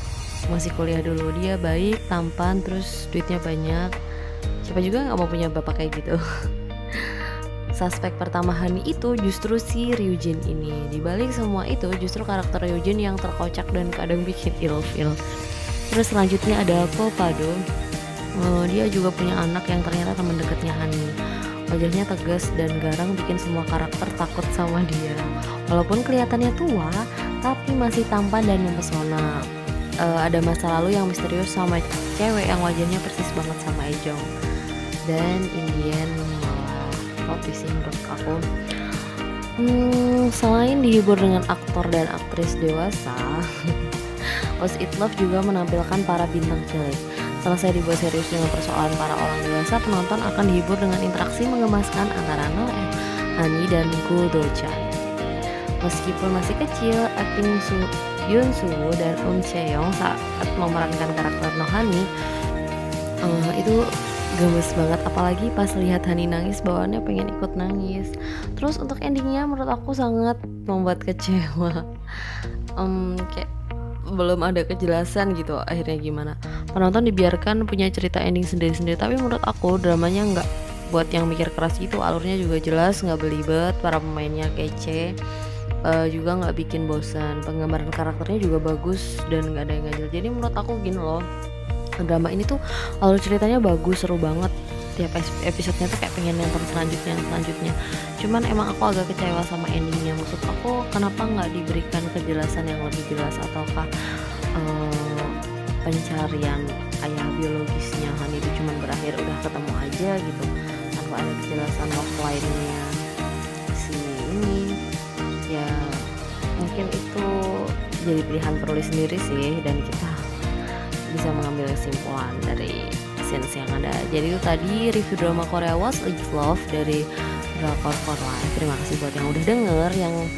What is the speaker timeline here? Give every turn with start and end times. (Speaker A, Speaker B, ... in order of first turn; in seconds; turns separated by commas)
Speaker A: 0.5-3.9, Speaker A: 4.6-6.2, Speaker A: 7.0-7.2, Speaker A: 7.8-15.2, Speaker A: 15.9-17.6, Speaker A: 18.4-21.0, Speaker A: 21.7-29.3, Speaker A: 30.1-34.2, Speaker A: 35.1-38.4, Speaker A: 39.6-43.4, Speaker A: 44.6-52.9, Speaker A: 53.4-54.9, Speaker A: 55.8-62.0, Speaker A: 63.3-63.8, Speaker A: 64.4-71.8, Speaker A: 72.8-73.5, Speaker A: 74.2-85.0, Speaker A: 85.8-91.2, Speaker A: 92.0-103.9, Speaker A: 104.6-105.3, Speaker A: 105.8-112.9, Speaker A: 113.8-114.7, Speaker A: 115.5-115.7, Speaker A: 116.6-117.2, Speaker A: 118.1-120.2, Speaker A: 121.1-127.0, Speaker A: 127.6-130.2